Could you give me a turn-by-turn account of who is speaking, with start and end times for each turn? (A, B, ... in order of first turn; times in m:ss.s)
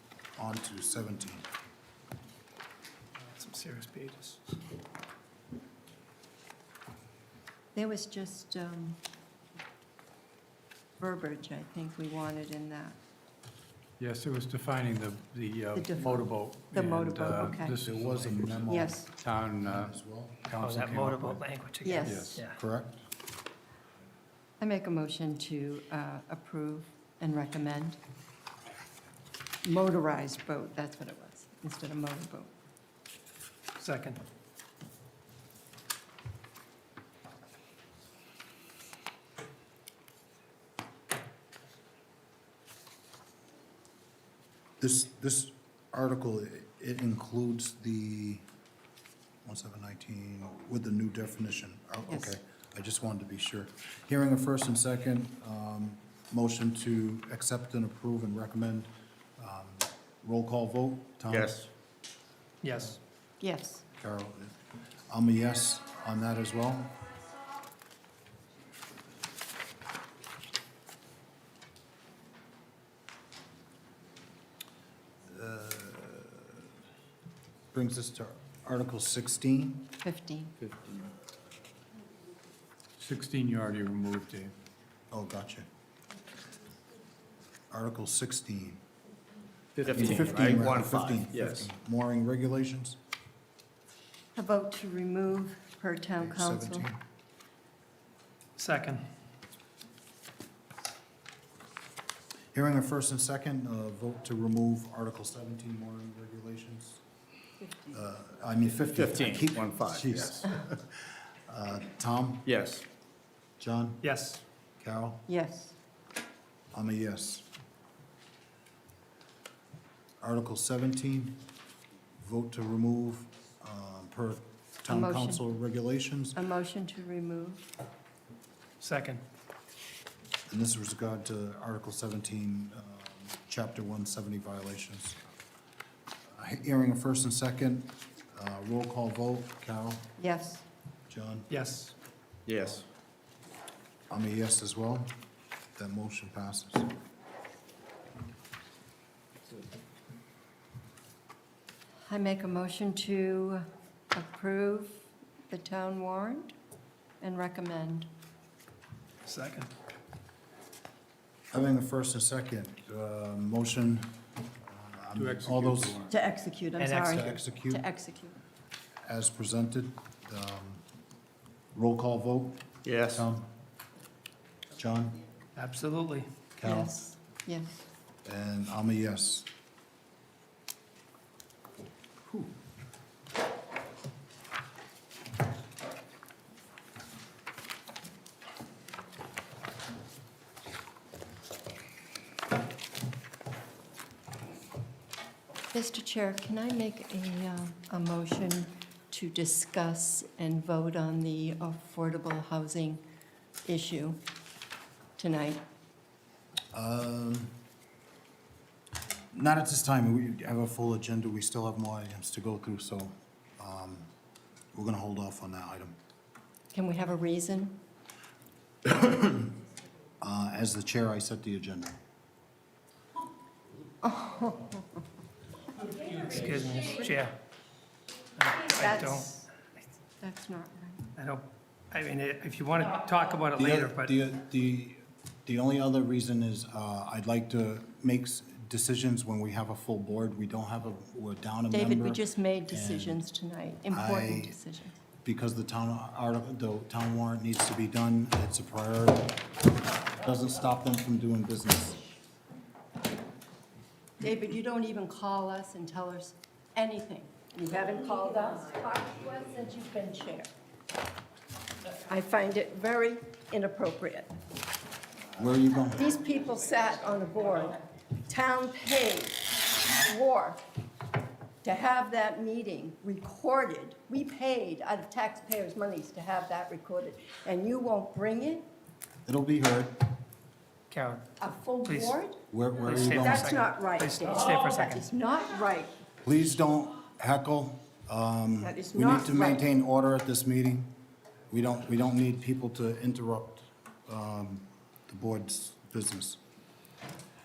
0:00.4-0:01.5 A
0:03.2-0:04.6 B
0:07.8-0:09.0 C
0:11.0-0:13.0 C
0:14.0-0:21.4 D
0:15.7-0:17.8 C
0:17.6-0:19.0 A
0:18.7-0:19.1 C
0:19.6-0:20.5 A
0:20.6-0:22.6 B
0:21.8-0:22.4 C
0:22.0-0:22.4 D
0:22.1-0:23.0 A
0:24.6-0:28.0 C
0:29.6-0:32.5 C
0:33.8-0:34.2 B
0:44.8-0:48.4 A
0:49.4-1:01.6 A
0:52.1-0:52.3 C
1:01.3-1:01.7 E
1:02.6-1:03.0 B
1:03.4-1:03.8 C
1:03.9-1:04.6 A
1:05.1-1:06.9 A
1:15.3-1:16.6 A
1:17.7-1:19.9 A
1:20.0-1:20.6 C
1:20.6-1:21.1 E
1:23.0-1:24.5 D
1:25.1-1:25.7 A
1:27.7-1:28.8 A
1:29.8-1:30.6 D
1:29.8-1:31.7 E
1:29.9-1:33.0 A
1:34.4-1:36.9 C
1:36.2-1:37.0 A
1:38.6-1:39.1 B
1:42.5-1:47.0 A
1:47.6-1:48.0 C
1:47.9-1:52.5 A
1:48.9-1:50.5 E
1:52.4-1:52.8 E
1:53.6-1:54.0 A
1:54.0-1:54.4 B
1:54.8-1:55.3 A
1:55.3-1:55.8 C
1:56.7-1:57.5 A
2:00.2-2:01.4 A
2:02.2-2:06.4 A
2:04.9-2:05.4 C
2:06.3-2:07.7 C
2:08.8-2:09.2 B
2:10.5-2:15.2 A
2:16.3-2:20.1 A
2:20.2-2:20.6 C
2:21.1-2:21.5 A
2:21.5-2:21.9 B
2:22.5-2:22.8 E
2:24.1-2:25.1 A
2:25.8-2:26.9 A
2:32.1-2:36.5 C
2:37.2-2:38.1 C
2:39.2-2:39.7 B
2:41.5-2:44.1 A
2:44.6-2:46.1 A
2:45.2-2:46.1 D
2:46.1-2:48.4 C
2:46.8-2:47.1 B
2:47.0-2:47.8 A
2:49.1-2:50.8 A
2:51.7-2:53.5 A
2:52.8-2:53.2 E
2:54.8-2:55.2 A
2:55.6-2:56.3 B
2:56.6-2:57.0 A
2:56.6-2:57.8 C
2:58.2-2:59.5 A
3:15.7-3:23.0 C
3:23.6-3:24.2 C
3:25.2-3:25.6 C
3:26.7-3:27.6 A
3:29.3-3:34.1 A
3:34.7-3:36.0 A
3:36.7-3:37.8 C
3:38.8-3:39.5 A
3:40.2-3:41.9 A
3:44.0-3:44.8 C
3:46.2-3:47.3 B
3:48.4-3:49.3 B
3:48.6-3:49.5 C
3:50.2-3:51.1 C
3:51.2-3:54.2 B
3:53.6-4:03.2 A
4:01.7-4:05.0 C
4:03.9-4:04.6 A
4:05.2-4:09.4 A
4:10.1-4:12.0 A
4:14.2-4:20.5 C
4:22.1-4:24.4 C
4:25.4-4:26.2 A
4:26.0-4:29.4 C
4:30.0-4:30.6 C
4:31.6-4:38.7 C
4:39.3-4:40.0 A
4:40.9-4:41.2 B
4:41.4-4:42.4 C
4:41.8-4:42.2 B
4:42.5-4:43.6 A
4:42.8-4:45.1 B
4:42.9-4:45.9 C
4:46.2-4:50.9 A
4:48.6-4:49.7 C
4:51.5-4:56.4 A